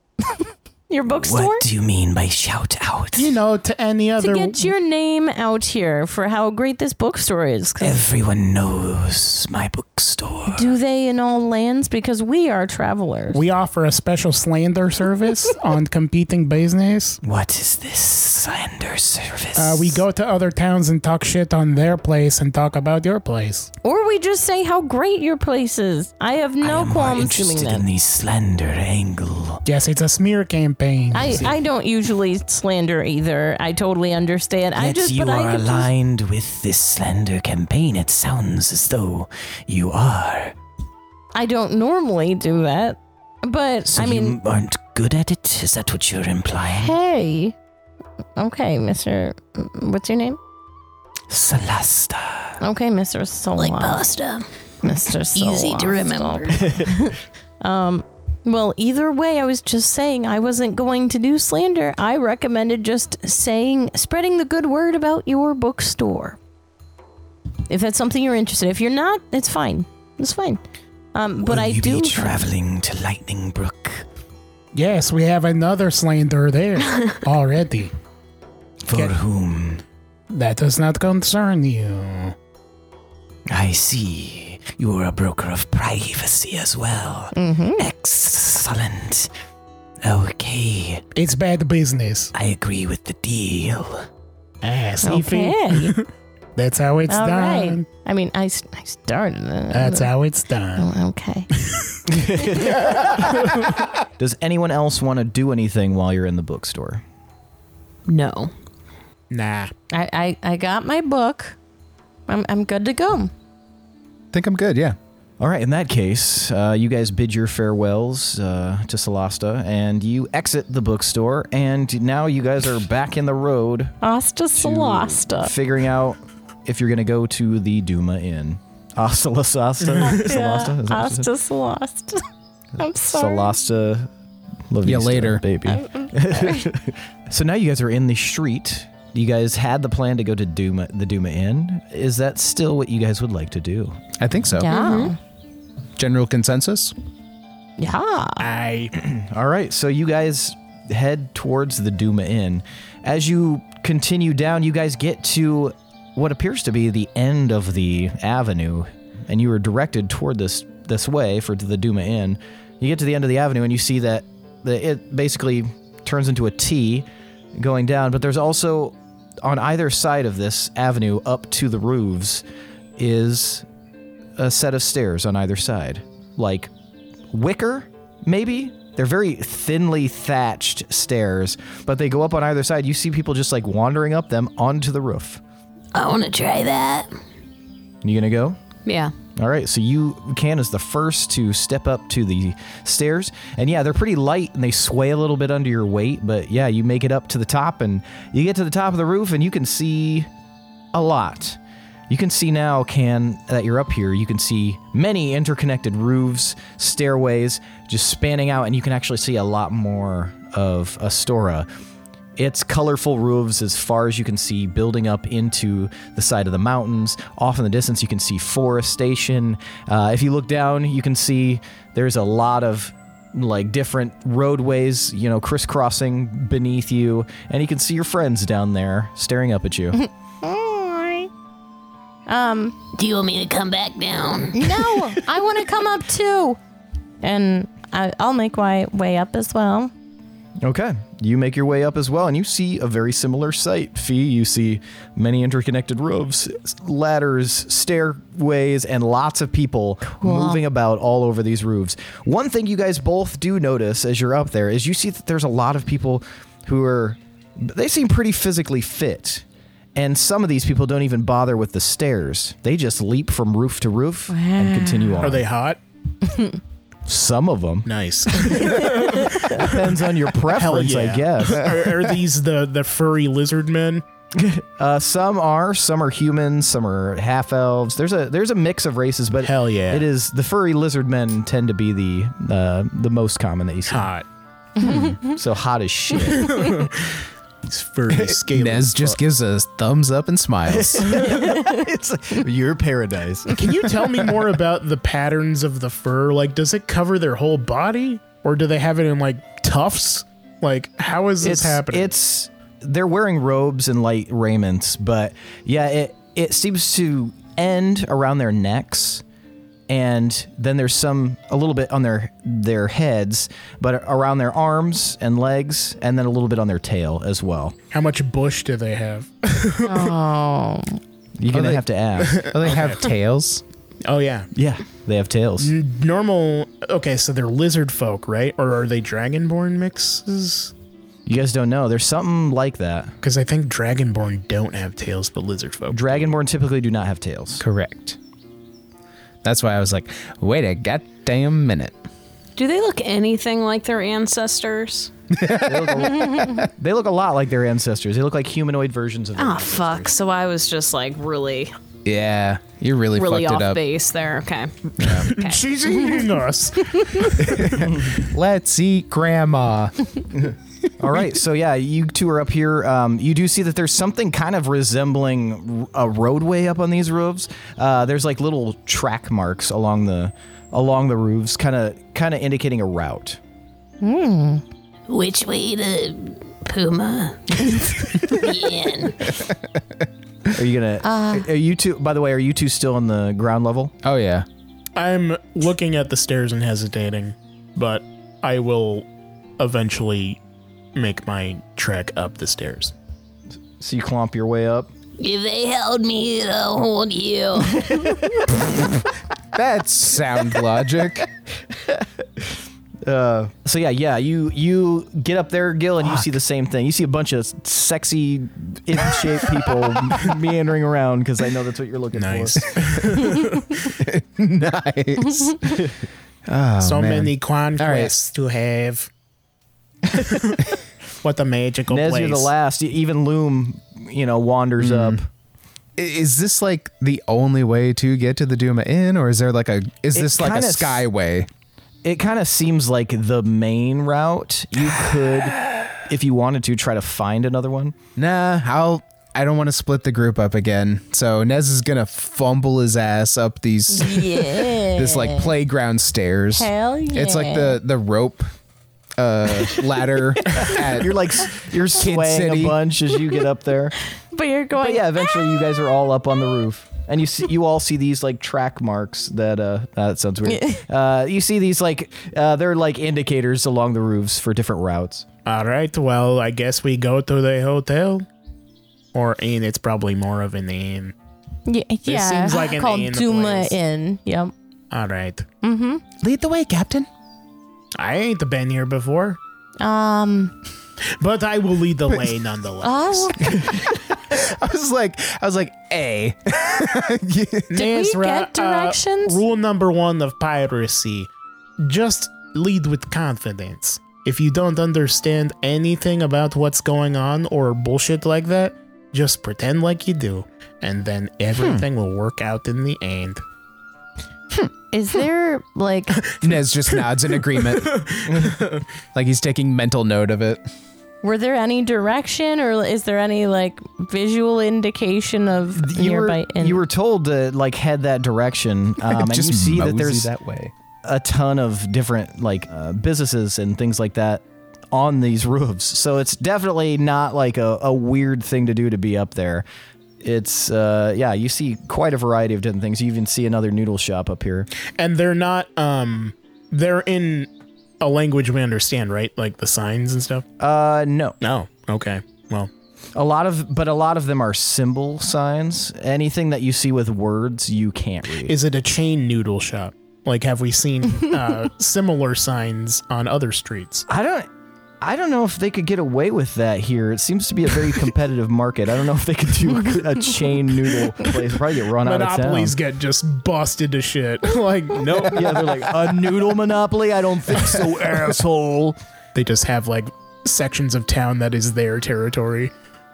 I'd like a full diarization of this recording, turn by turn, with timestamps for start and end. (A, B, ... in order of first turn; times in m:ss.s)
0:00.2-0:01.6 A
0:01.1-0:03.3 B
0:03.2-0:04.7 C
0:04.2-0:08.0 A
0:07.8-0:10.7 B
0:10.5-0:13.4 A
0:13.3-0:17.2 C
0:17.2-0:20.0 B
0:19.6-0:23.7 C
0:23.8-0:27.9 A
0:26.6-0:29.6 B
0:29.6-0:31.6 C
0:31.1-0:35.9 A
0:34.8-0:40.5 B
0:41.3-0:44.4 A
0:43.9-0:46.9 B
0:46.7-0:47.6 A
0:48.4-0:50.4 A
0:51.3-0:52.6 B
0:52.6-0:54.1 A
0:53.6-0:54.5 D
0:54.8-1:06.4 A
0:55.3-0:56.7 D
0:56.6-0:56.9 B
1:07.7-1:10.6 A
1:11.1-1:12.4 A
1:11.4-1:14.0 B
1:14.7-1:17.9 C
1:18.8-1:19.8 B
1:20.3-1:22.3 C
1:23.5-1:29.3 B
1:27.3-1:27.8 A
1:30.0-1:31.0 B
1:31.1-1:32.3 C
1:32.3-1:34.1 B
1:34.6-1:37.9 C
1:35.0-1:36.0 A
1:37.1-1:40.1 A
1:39.7-1:40.9 C
1:40.8-1:41.5 A
1:41.6-1:42.0 C
1:42.0-1:43.5 B
1:42.9-1:43.7 C
1:44.2-1:47.0 B
1:48.1-1:48.5 E
1:49.3-1:49.7 C
1:49.9-1:51.6 A
1:52.3-1:53.3 A
1:54.3-1:55.0 F
1:55.4-2:04.0 B
2:04.0-2:05.5 A
2:04.6-2:11.3 B
2:10.0-2:12.2 A
2:12.8-2:13.6 A
2:12.8-2:14.1 B
2:14.7-2:24.0 B
2:14.8-2:15.8 F
2:15.7-2:16.7 A
2:24.2-2:24.7 F
2:24.6-2:25.2 A
2:26.0-2:26.9 F
2:27.8-2:28.4 A
2:28.4-2:28.9 C
2:28.9-2:52.4 B
2:53.0-2:53.6 B
2:54.4-2:56.7 B
2:57.3-3:05.4 B
3:05.9-3:07.1 D
3:08.0-3:08.6 B
3:08.9-3:09.1 E
3:09.4-3:20.3 B
3:20.9-3:31.7 B
3:32.4-3:50.0 B
3:49.9-3:51.3 A
3:52.3-3:52.8 A
3:52.9-3:54.7 D
3:54.5-3:56.6 A
3:57.2-3:59.9 A
4:00.6-4:25.4 B
4:10.2-4:10.6 A
4:24.3-4:25.3 A
4:25.2-4:25.8 C
4:26.2-4:26.6 A
4:27.0-4:27.9 B
4:27.8-4:34.0 C
4:28.4-4:31.7 B
4:34.3-4:44.1 B
4:39.4-4:40.1 C
4:43.9-4:44.3 C
4:44.8-4:45.3 A
4:44.8-4:46.6 B
4:46.3-4:49.2 C
4:48.1-4:51.2 F
4:50.7-4:53.7 B
4:51.4-4:51.8 A
4:53.5-5:02.1 C
5:01.4-5:09.2 B
5:09.9-5:17.7 B
5:17.9-5:20.2 C
5:19.8-5:21.0 A
5:21.4-5:22.4 B
5:21.5-5:23.6 F
5:22.2-5:23.1 C
5:24.0-5:24.5 C
5:24.5-5:25.7 B
5:25.6-5:30.7 C
5:31.3-5:33.2 B
5:33.2-5:36.4 C
5:35.9-5:37.6 B
5:37.6-5:38.2 F
5:39.4-5:41.9 F
5:42.6-5:45.1 E
5:45.3-5:46.7 F
5:45.6-5:50.1 B
5:46.2-5:46.6 A
5:49.4-5:51.7 E
5:52.0-5:53.8 F
5:53.1-5:55.6 E
5:55.0-5:55.3 F
5:55.2-5:58.1 C
5:57.4-6:00.5 F
5:57.8-5:58.1 B
6:01.0-6:13.4 B
6:14.0-6:14.6 A
6:15.1-6:19.2 D
6:19.3-6:19.6 F
6:20.5-6:23.9 B
6:21.0-6:21.5 A
6:24.0-6:24.4 F
6:25.0-6:29.1 C
6:29.6-6:30.4 C
6:30.9-6:32.9 C
6:33.8-6:34.9 B
6:35.2-6:38.3 D
6:39.5-6:41.3 F
6:41.8-6:42.5 B
6:43.0-6:52.8 B
6:52.1-6:53.8 C
6:52.8-6:55.9 F
6:56.5-6:58.1 F
6:56.8-6:59.1 C
7:00.1-7:02.5 C
7:01.9-7:05.3 B
7:04.8-7:05.2 F
7:06.0-7:11.5 F
7:10.1-7:11.0 B
7:12.0-7:17.9 B
7:18.2-7:28.5 F
7:23.9-7:25.5 A
7:26.6-7:27.8 A
7:29.2-7:32.8 F
7:30.6-7:34.0 B
7:34.2-7:36.0 A
7:34.8-7:45.3 B
7:40.4-7:40.8 A
7:45.4-7:48.3 C
7:49.1-7:51.1 C
7:51.6-7:54.5 A
7:52.0-7:53.8 C
7:54.9-7:55.5 C
7:55.6-7:56.0 A
7:56.2-7:57.1 F
7:58.0-7:59.4 C
7:59.8-8:00.6 A
8:01.0-8:03.6 C
8:02.8-8:03.6 A
8:03.5-8:07.7 F
8:07.7-8:23.4 C
8:07.7-8:09.4 A
8:21.6-8:21.8 F
8:24.9-8:26.4 A
8:26.3-8:28.6 F
8:26.4-8:28.8 C
8:29.1-8:30.6 F
8:31.2-8:36.8 A
8:35.7-8:40.3 B
8:39.0-8:40.7 F
8:41.0-8:49.6 B
8:50.2-8:54.7 B
8:54.9-9:00.4 C
9:00.6-9:01.4 B
9:01.4-9:02.7 C
9:03.1-9:08.6 B
9:08.4-9:14.1 C
9:14.1-9:14.5 B
9:15.0-9:22.8 B
9:22.0-9:25.8 C
9:25.1-9:29.0 B
9:29.3-9:32.7 C